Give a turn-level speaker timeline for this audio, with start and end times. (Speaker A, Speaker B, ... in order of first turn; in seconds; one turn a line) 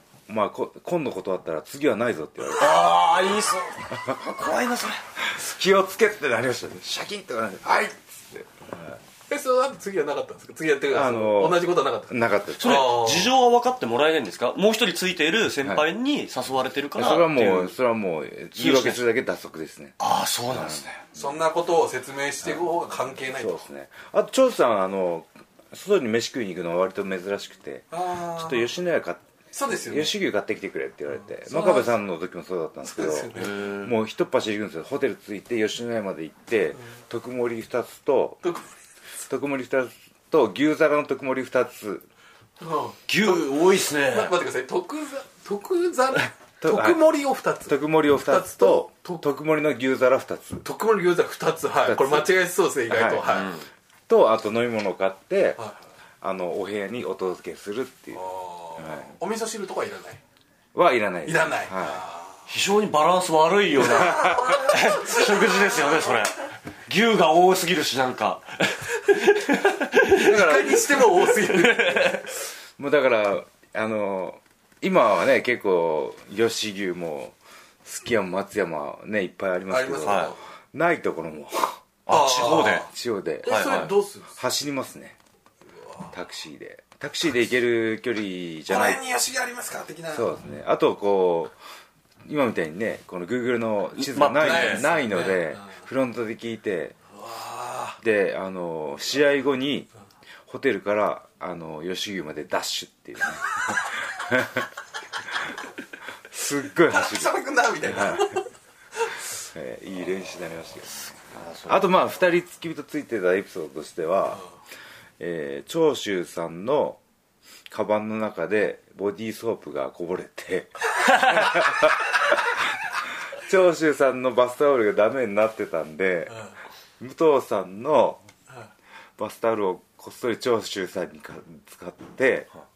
Speaker A: 0.3-3.0
Speaker B: 2.5-5.0
Speaker A: 3.9-4.5
Speaker A: 5.2-9.0
Speaker C: 9.3-13.3
Speaker A: 10.9-13.0
Speaker B: 12.6-17.7
Speaker A: 16.9-21.2
Speaker B: 18.6-19.0
Speaker B: 20.0-20.8
Speaker C: 21.1-23.7
Speaker A: 23.3-29.2
Speaker C: 27.9-28.7
Speaker C: 29.5-30.1
Speaker A: 29.9-38.4
Speaker C: 31.4-31.9
Speaker C: 32.9-33.8
Speaker B: 33.3-33.9
Speaker C: 38.4-38.7
Speaker A: 39.3-42.0
Speaker C: 42.6-49.2
Speaker B: 43.1-44.4
Speaker A: 46.6-47.0
Speaker A: 47.7-50.6
Speaker C: 50.6-53.6
Speaker A: 51.8-52.3
Speaker A: 52.9-53.4
Speaker B: 53.3-53.7
Speaker A: 54.1-55.6
Speaker A: 56.2-58.2
Speaker C: 58.1-60.2
Speaker A: 58.8-59.1
Speaker A: 60.7-62.0
Speaker C: 61.2-62.4
Speaker B: 62.5-72.3
Speaker C: 63.9-66.2
Speaker A: 64.0-64.5
Speaker C: 70.1-72.3
Speaker A: 70.2-70.8
Speaker A: 72.8-81.8
Speaker C: 79.7-80.4
Speaker B: 80.0-80.3
Speaker B: 82.0-82.9
Speaker C: 82.1-82.9
Speaker A: 82.6-85.2
Speaker C: 83.4-84.3
Speaker B: 83.5-83.9
Speaker A: 86.1-89.0
Speaker C: 88.7-90.4
Speaker A: 90.1-91.5
Speaker A: 92.2-97.0
Speaker B: 94.0-94.9
Speaker C: 94.4-95.8
Speaker C: 97.1-98.0
Speaker A: 98.0-99.9
Speaker A: 100.5-104.7
Speaker A: 106.3-108.4
Speaker C: 106.9-108.4
Speaker A: 109.5-114.4
Speaker B: 111.3-111.9
Speaker A: 115.2-117.0
Speaker A: 117.7-126.5
Speaker B: 121.0-121.4
Speaker A: 127.0-128.2
Speaker A: 129.2-132.5